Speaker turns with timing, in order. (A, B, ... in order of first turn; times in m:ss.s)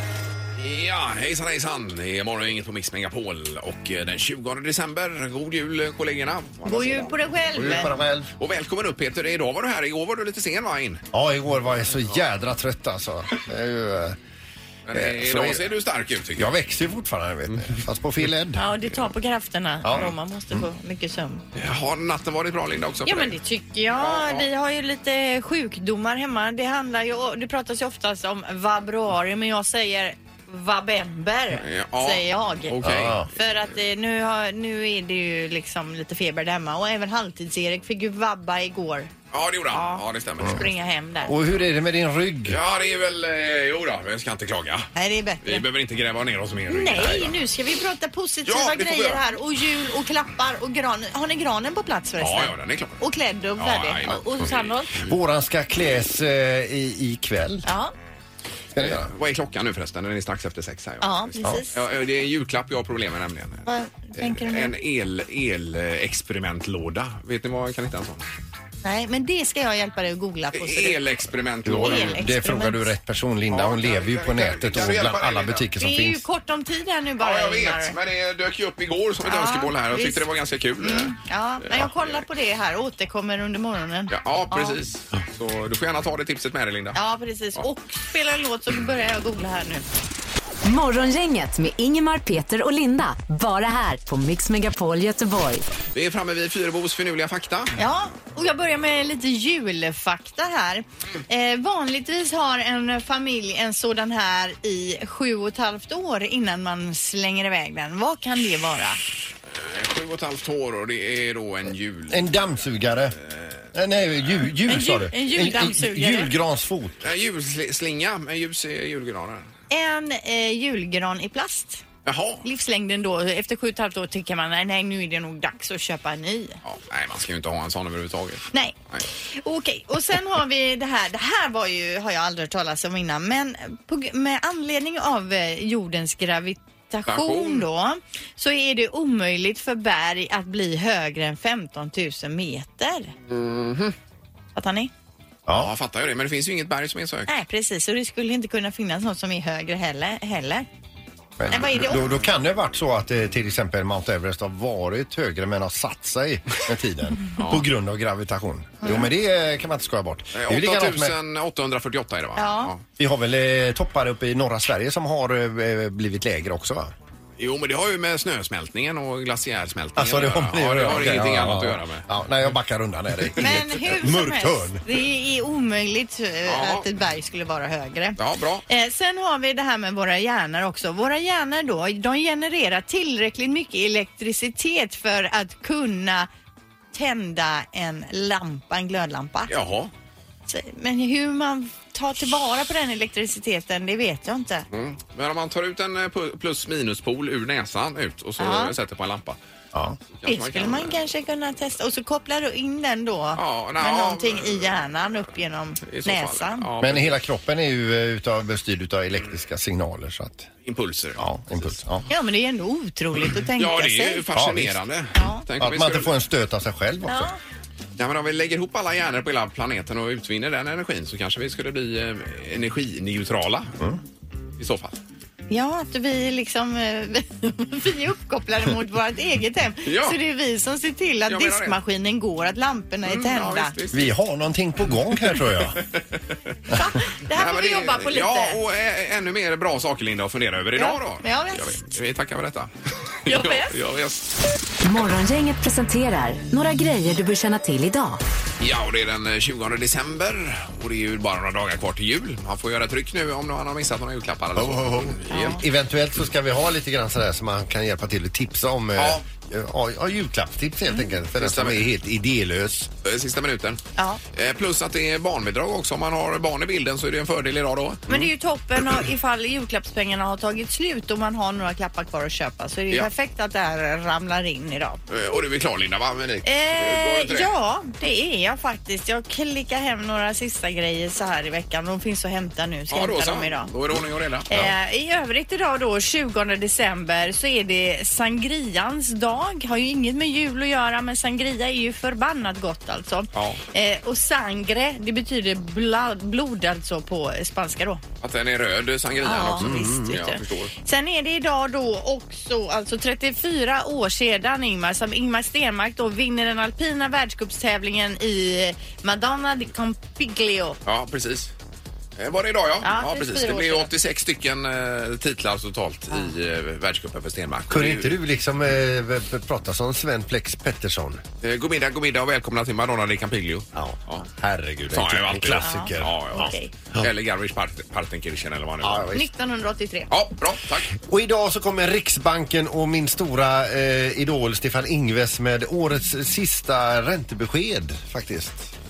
0:00.6-0:07.3 A
0:06.6-0:07.9 B
0:07.6-0:08.3 C
0:08.4-0:11.0 A
0:11.1-0:14.2 C
0:14.8-0:16.5 A
0:14.9-0:15.7 C
0:16.4-0:18.6 C
0:18.6-0:21.4 B
0:19.8-0:20.1 C
0:21.6-0:23.3 A
0:23.0-0:39.1 B
0:24.0-0:24.5 A
0:31.6-0:33.2 A
0:32.8-0:33.3 C
0:39.3-0:40.7 A
0:39.7-0:41.3 B
0:41.2-0:42.6 C
0:42.5-0:44.9 A
0:45.0-0:45.6 B
0:45.4-0:47.3 A
0:46.7-0:54.9 B
0:48.5-0:49.2 A
0:52.2-0:53.0 A
0:53.6-0:55.0 A
0:55.0-0:57.6 C
0:57.6-0:57.9 B
0:58.7-0:59.1 C
0:58.8-1:03.6 A
1:01.0-1:01.7 B
1:03.6-1:04.7 B
1:04.2-1:08.2 A
1:08.8-1:11.1 B
1:10.5-1:12.2 A
1:11.6-1:16.2 C
1:11.7-1:12.9 B
1:13.5-1:15.7 A
1:15.8-1:17.9 B
1:17.2-1:21.1 A
1:19.2-1:20.2 B
1:20.8-1:24.8 B
1:21.7-1:22.2 A
1:24.1-1:27.0 A
1:26.9-1:29.8 B
1:30.6-1:35.7 D
1:35.9-1:37.8 A
1:37.8-1:49.0 B
1:49.5-1:52.3 A
1:52.1-1:53.2 C
1:53.2-1:53.7 A
1:53.7-1:57.0 C
1:54.7-1:56.3 B
1:57.0-1:59.5 A
1:59.7-2:01.8 B
2:02.0-2:02.4 A
2:02.4-2:06.6 B
2:06.6-2:09.0 A
2:08.5-2:23.1 B
2:17.1-2:17.6 A
2:23.3-2:23.9 A
2:24.6-2:24.9 B
2:25.5-2:27.3 A
2:27.3-2:30.7 B
2:31.4-2:41.2 C
2:31.5-2:32.2 B
2:37.4-2:37.6 A
2:40.3-2:42.8 A
2:42.4-2:42.7 B
2:43.0-2:46.9 C
2:47.4-2:52.0 A
2:50.0-2:54.8 C
2:53.4-3:06.3 B
2:56.4-2:56.8 A
2:58.2-2:58.6 A
3:06.9-3:09.5 B
3:09.5-3:09.9 A
3:10.5-3:14.7 B
3:14.7-3:19.4 A
3:18.4-3:18.7 B
3:19.7-3:20.0 C
3:20.1-3:21.0 A
3:20.2-3:26.7 B
3:23.4-3:24.8 A
3:25.8-3:27.2 A
3:26.8-3:30.5 C
3:30.6-3:31.8 A
3:31.2-3:32.1 C
3:32.1-3:34.2 B
3:33.6-3:36.1 A
3:34.3-3:34.8 C
3:35.1-3:35.4 B
3:35.6-3:37.3 C
3:37.1-3:37.4 B
3:38.0-3:43.8 A
3:44.6-3:45.0 A
3:45.5-3:53.7 B
3:49.8-3:50.2 A
3:51.3-3:51.8 A
3:53.0-3:54.1 A
3:53.9-3:55.8 C
3:55.9-3:56.2 A
3:56.7-3:58.6 B
3:57.3-4:02.7 A
4:00.8-4:01.9 B
4:03.2-4:04.3 A
4:03.3-4:03.7 B
4:04.8-4:08.2 D
4:08.6-4:15.6 A
4:14.6-4:22.9 C
4:15.3-4:15.6 B
4:19.0-4:19.2 A
4:21.4-4:21.9 A
4:23.0-4:23.8 A
4:24.3-4:28.2 A
4:28.1-4:35.0 B
4:35.1-4:37.5 A
4:36.4-4:43.7 B
4:42.9-4:44.7 A
4:44.5-4:58.0 B
4:53.3-4:53.6 A
4:58.2-5:00.7 A
4:59.2-5:10.8 B
4:59.6-5:00.2 C
5:10.9-5:11.5 A
5:12.2-5:18.2 A
5:12.8-5:13.9 B
5:17.7-5:21.2 C
5:21.4-5:24.3 A
5:23.7-5:27.1 C
5:24.9-5:29.1 A
5:25.6-5:26.7 B
5:28.8-5:29.3 C
5:29.1-5:30.1 B
5:30.1-5:30.9 A
5:31.0-5:38.7 C